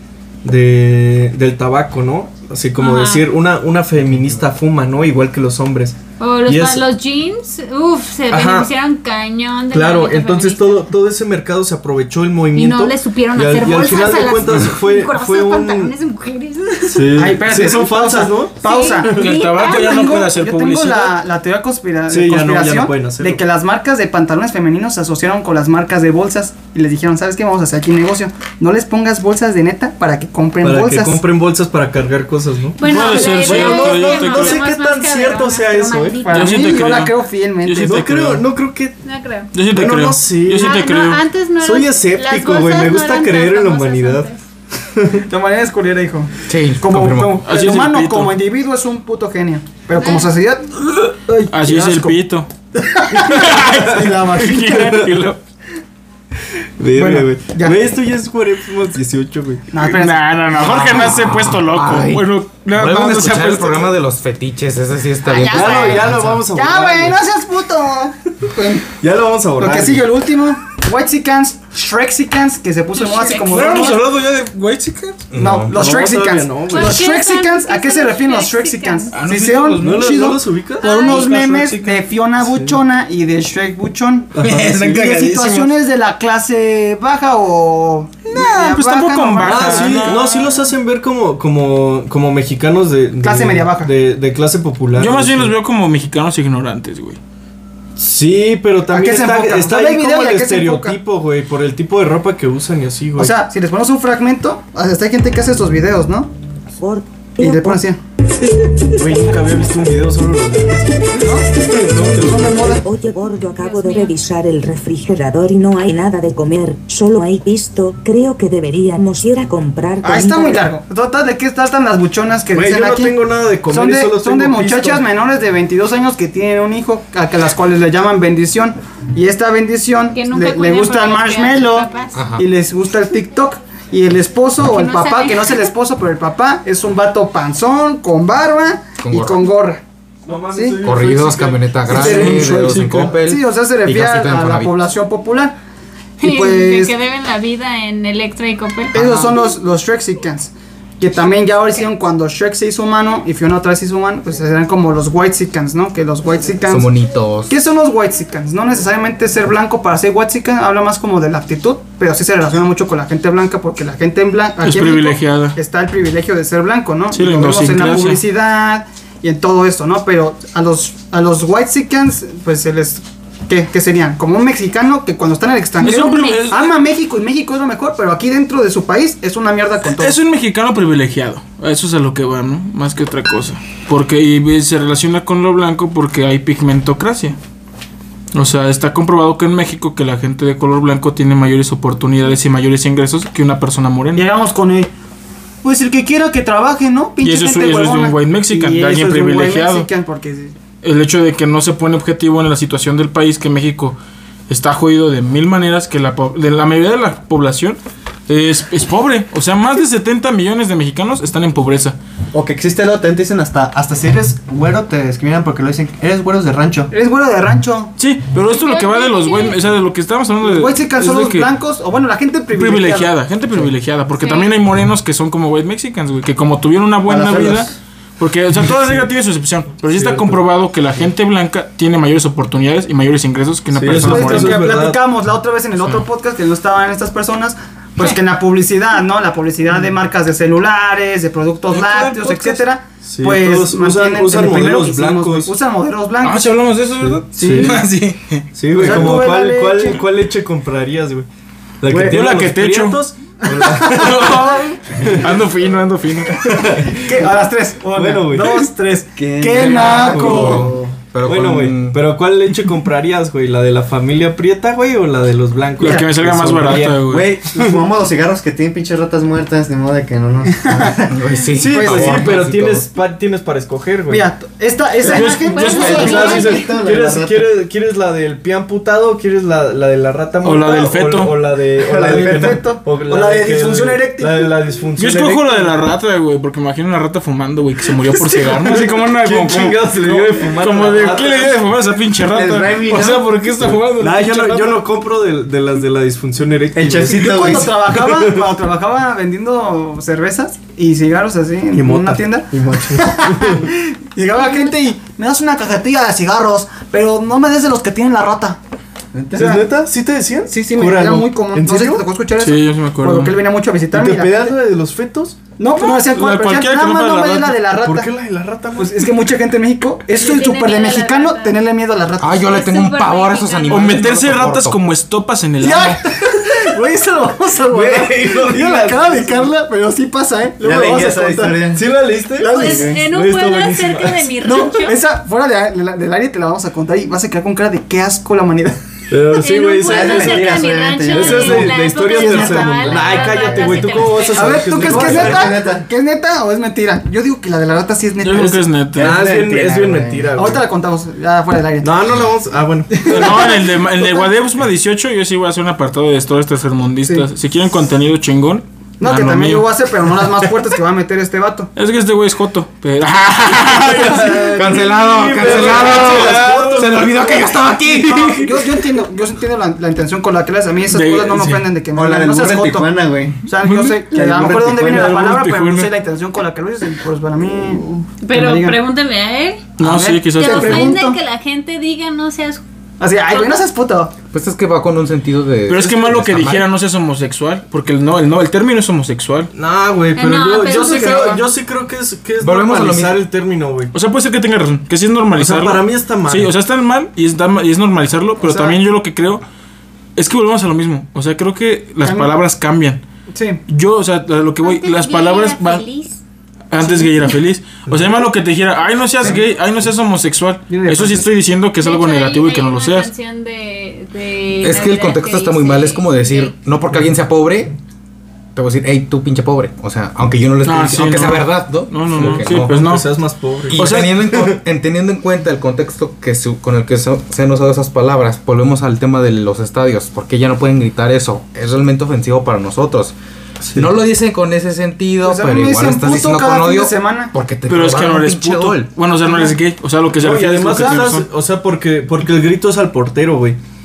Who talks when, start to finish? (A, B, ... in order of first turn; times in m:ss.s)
0:00.4-0:06.9 A
0:02.8-0:03.3 B
0:06.2-0:10.9 B
0:08.3-0:08.7 A
0:09.7-0:15.9 A
0:12.5-0:17.2 B
0:16.9-0:19.3 A
0:17.1-0:31.2 C
0:18.6-0:20.2 B
0:19.1-0:21.2 D
0:22.1-0:23.4 A
0:30.6-0:36.3 A
0:32.8-0:36.9 B
0:32.8-0:34.6 D
0:36.2-0:38.1 C
0:36.3-0:38.5 D
0:37.8-0:39.0 A
0:39.0-0:39.5 B
0:39.5-0:41.2 D
0:39.6-0:40.9 A
0:40.6-0:44.4 B
0:41.6-0:44.3 A
0:44.9-0:45.2 A
0:45.2-0:50.7 C
0:46.5-0:47.4 E
0:47.4-0:48.4 D
0:50.0-0:50.3 B
0:51.3-0:52.2 C
0:51.5-0:52.5 D
0:52.8-0:55.0 C
0:53.1-0:55.4 D
0:56.8-0:59.7 A
0:56.9-0:57.8 C
0:59.7-1:01.1 C
0:59.8-1:03.9 D
1:00.6-1:06.5 E
1:05.2-1:08.9 C
1:05.4-1:07.2 A
1:09.0-1:10.1 A
1:09.6-1:14.0 C
1:13.0-1:13.8 B
1:13.4-1:15.3 D
1:15.3-1:16.0 E
1:15.4-1:30.3 C
1:15.7-1:17.1 A
1:16.7-1:19.1 B
1:19.1-1:20.3 D
1:19.8-1:21.1 A
1:20.8-1:21.3 B
1:20.9-1:22.0 D
1:22.4-1:22.7 A
1:24.3-1:25.3 A
1:24.4-1:25.7 E
1:28.2-1:30.6 D
1:29.4-1:35.6 A
1:33.2-1:33.9 C
1:35.0-1:37.2 D
1:38.0-1:43.4 A
1:38.8-1:41.0 C
1:43.2-1:46.3 C
1:46.8-1:47.8 F
1:47.4-1:48.0 C
1:48.9-1:52.5 A
1:51.1-1:52.8 C
1:51.7-2:00.7 F
1:53.6-1:54.2 B
2:00.0-2:19.8 C
2:02.5-2:05.0 A
2:10.1-2:12.2 B
2:12.1-2:12.4 E
2:14.6-2:15.7 B
2:19.0-2:19.5 E
2:20.2-2:23.0 A
2:20.5-2:20.8 C
2:20.8-2:24.7 E
2:21.9-2:25.6 C
2:21.9-2:23.1 D
2:26.2-2:29.4 B
2:26.2-2:26.9 C
2:28.9-2:36.9 C
2:36.6-2:37.5 E
2:37.5-3:00.2 C
2:44.6-2:45.6 D
2:47.1-2:48.2 D
2:55.8-2:56.7 D
2:55.8-2:56.4 B
2:59.9-3:07.4 D
3:08.3-3:14.3 D
3:14.1-3:14.9 C
3:15.6-3:20.6 C
3:17.2-3:19.9 D
3:20.8-3:24.0 D
3:24.5-3:32.0 D
3:32.3-3:36.9 G
3:36.9-3:37.9 C
3:38.0-3:41.5 D
3:38.5-3:39.6 B
3:40.4-3:43.1 C
3:42.5-3:54.7 D
3:44.2-3:44.5 B
3:47.0-3:47.8 G
3:49.9-3:50.4 A
3:53.7-3:55.0 A
3:54.0-4:06.6 C
4:01.7-4:02.6 D
4:03.0-4:05.5 A
4:06.2-4:09.2 D
4:07.0-4:07.8 A
4:07.4-4:07.8 C
4:08.6-4:11.3 A
4:08.7-4:10.0 C
4:11.8-4:15.3 A
4:11.9-4:13.0 D
4:13.6-4:16.7 D
4:16.4-4:17.2 A
4:16.9-4:20.7 C
4:17.9-4:18.7 A
4:19.2-4:21.0 G
4:19.5-4:22.2 E
4:19.9-4:20.6 A
4:21.2-4:27.8 A
4:25.8-4:27.3 D
4:25.8-4:26.1 C
4:27.1-4:31.1 G
4:30.6-4:31.1 C
4:31.1-4:32.9 E
4:31.6-4:34.3 A
4:31.7-4:32.4 C
4:34.1-4:36.6 C
4:35.0-4:36.3 D
4:35.1-4:36.8 B
4:35.7-4:45.7 A
4:35.8-4:37.6 G
4:40.4-4:41.4 D
4:41.8-4:42.8 G
4:42.1-4:44.6 C
4:45.0-4:54.9 D
4:48.7-4:51.6 A
4:52.3-4:53.3 G
4:54.0-4:58.5 A
4:56.7-4:57.8 G
4:57.2-5:08.6 C
5:01.7-5:03.6 A
5:02.5-5:03.2 G
5:04.4-5:04.8 B
5:09.1-5:09.6 G
5:09.3-5:12.0 A
5:09.3-5:09.7 C
5:10.5-5:14.6 C
5:12.4-5:13.4 D
5:13.9-5:15.4 A
5:15.6-5:18.1 C
5:15.8-5:17.6 D
5:17.8-5:19.1 A
5:18.8-5:22.5 C
5:20.2-5:21.6 B
5:22.2-5:24.8 E
5:22.4-5:24.1 B
5:23.7-5:26.0 D
5:25.6-5:33.0 C
5:27.7-5:29.5 A
5:30.6-5:31.9 G
5:31.7-5:34.7 A
5:32.4-5:35.0 B
5:32.6-5:32.9 G
5:34.4-5:38.8 C
5:39.1-5:45.6 A
5:39.3-5:44.6 B
5:39.8-5:41.8 G
5:42.1-5:43.7 C
5:42.8-5:43.4 G
5:44.3-5:48.6 C
5:44.6-5:45.9 G
5:48.2-5:49.2 D
5:48.3-5:50.6 A
5:49.0-5:50.4 G
5:50.4-5:52.0 C
5:51.8-5:53.5 A
5:53.0-5:59.7 D
5:59.0-6:01.7 C
6:01.8-6:04.6 D
6:03.8-6:08.4 A
6:04.5-6:08.4 E
6:05.4-6:06.6 C
6:08.3-6:12.9 C
6:10.9-6:11.6 D
6:11.9-6:13.4 G
6:13.4-6:18.8 C
6:13.6-6:14.0 D
6:14.1-6:15.3 G
6:14.8-6:15.9 D
6:18.2-6:19.7 B
6:19.8-6:21.0 D
6:19.8-6:21.2 C
6:20.3-6:22.6 B
6:23.0-6:24.1 C
6:23.3-6:23.6 B
6:24.3-6:26.7 E
6:25.7-6:29.5 D
6:29.5-6:33.9 A
6:30.1-6:31.4 B
6:30.6-6:31.4 C
6:32.4-6:33.2 E
6:33.9-6:39.4 D
6:35.4-6:36.5 A
6:38.4-6:38.8 C
6:40.2-6:43.0 D
6:42.0-6:42.4 C
6:43.3-6:43.6 C
6:43.7-6:45.8 D
6:44.6-6:46.2 B
6:46.7-6:53.1 D
6:46.8-6:47.1 B
6:47.9-6:48.2 A
6:50.7-6:51.3 C
6:51.8-6:56.6 B
6:54.6-6:57.7 E
6:58.6-7:03.0 E
7:00.6-7:03.1 D
7:02.0-7:04.6 A
7:03.7-7:13.1 E
7:03.7-7:04.1 D
7:13.6-7:14.0 A
7:13.7-7:18.9 E
7:15.2-7:17.3 C
7:17.7-7:21.3 D
7:19.2-7:19.6 C
7:20.2-7:23.6 A
7:20.8-7:21.0 C